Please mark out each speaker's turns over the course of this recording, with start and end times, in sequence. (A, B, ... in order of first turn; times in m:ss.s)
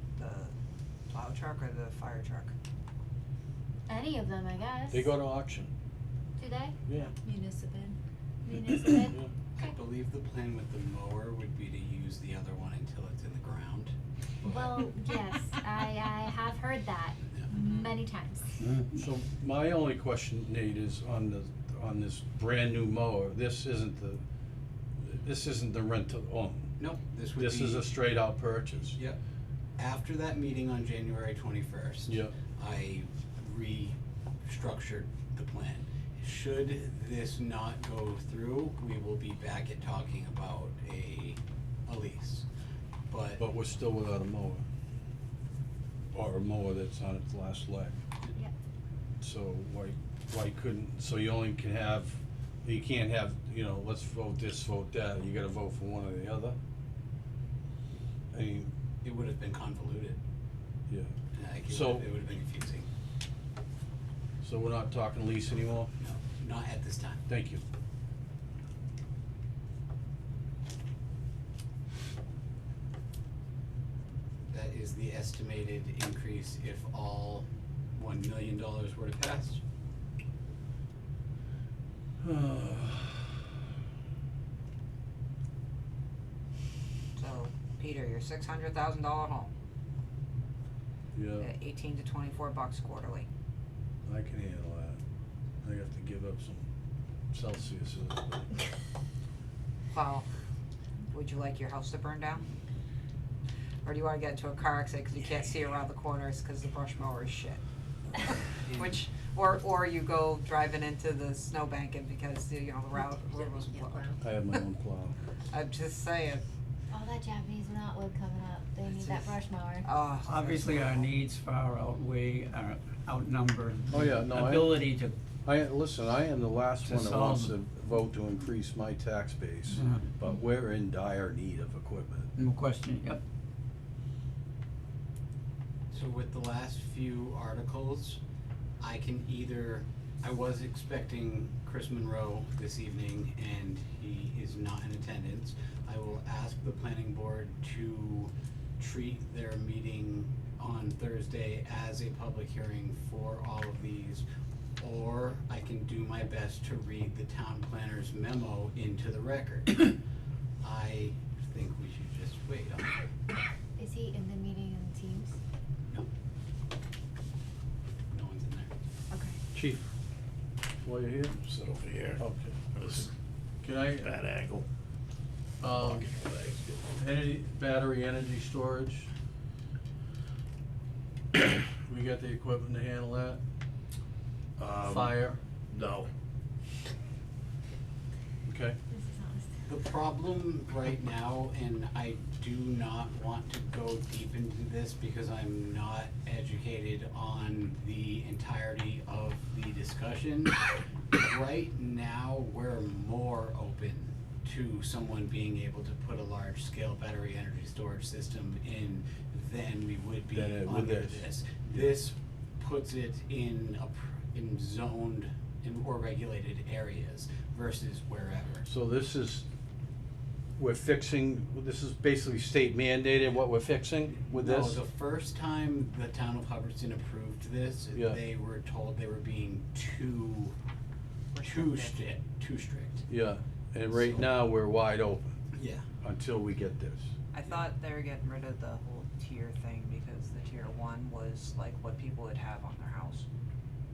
0:00.2-0:00.5 A
0:01.1-0:02.5 A
0:03.9-0:05.1 B
0:04.9-0:05.7 C
0:06.4-0:09.7 B
0:06.9-0:07.1 C
0:09.0-0:09.3 C
0:09.6-0:13.9 D
0:14.4-0:18.5 B
0:14.5-0:14.7 D
0:17.5-0:17.9 A
0:18.6-0:24.2 C
0:25.0-0:26.8 C
0:26.8-0:27.9 D
0:27.4-0:29.0 C
0:29.8-0:42.4 D
0:32.1-0:32.3 C
0:43.1-0:43.4 D
0:43.4-0:44.6 C
0:46.1-0:48.0 C
0:49.2-0:56.6 C
0:58.3-0:58.7 C
0:59.0-1:00.2 D
1:01.4-1:02.9 D
1:01.7-1:02.1 C
1:04.4-1:05.9 C
1:06.0-1:07.2 D
1:07.3-1:07.6 C
1:14.5-1:19.6 D
1:22.2-1:23.3 C
1:27.2-1:29.5 A
1:31.1-1:31.5 C
1:31.4-1:33.3 A
1:34.0-1:35.0 C
1:35.6-1:36.7 C
1:37.3-1:38.5 C
1:39.9-1:40.3 A
1:41.1-1:42.4 A
1:43.8-1:47.6 A
1:48.2-1:54.6 A
1:53.7-1:54.2 B
1:54.2-1:55.2 C
1:55.5-1:56.4 A
1:56.9-1:59.9 B
1:58.9-2:01.1 A
2:00.2-2:05.2 E
2:03.9-2:04.8 C
2:05.4-2:12.3 C
2:06.8-2:07.5 E
2:09.7-2:10.1 E
2:12.4-2:13.2 E
2:15.9-2:18.2 D
2:18.8-2:34.2 D
2:34.8-2:40.0 D
2:40.6-2:42.9 D
2:43.8-2:45.4 B
2:48.1-2:48.7 D
2:49.1-2:49.4 B
2:49.5-2:49.8 C
2:50.8-2:51.4 C
2:51.4-2:53.1 F
2:52.2-2:53.1 C
2:53.6-2:54.2 C
2:54.0-2:54.6 F
2:55.6-2:56.1 C
2:55.7-2:57.0 F
2:56.9-2:59.1 C
3:01.4-3:03.4 C
3:04.6-3:06.1 F
3:04.8-3:05.4 C
3:08.5-3:08.8 C
3:08.9-3:09.7 B
3:09.6-3:38.7 D
3:30.3-3:31.8 C
3:38.7-3:39.5 C
3:40.6-3:44.8 C
3:44.2-3:50.5 D
3:47.9-3:48.2 C
3:51.3-3:52.0 A
3:51.4-3:53.1 D
3:53.1-3:55.3 C
3:53.9-3:54.3 D
3:55.6-3:55.8 D
3:56.0-3:57.1 C
3:57.3-4:03.3 A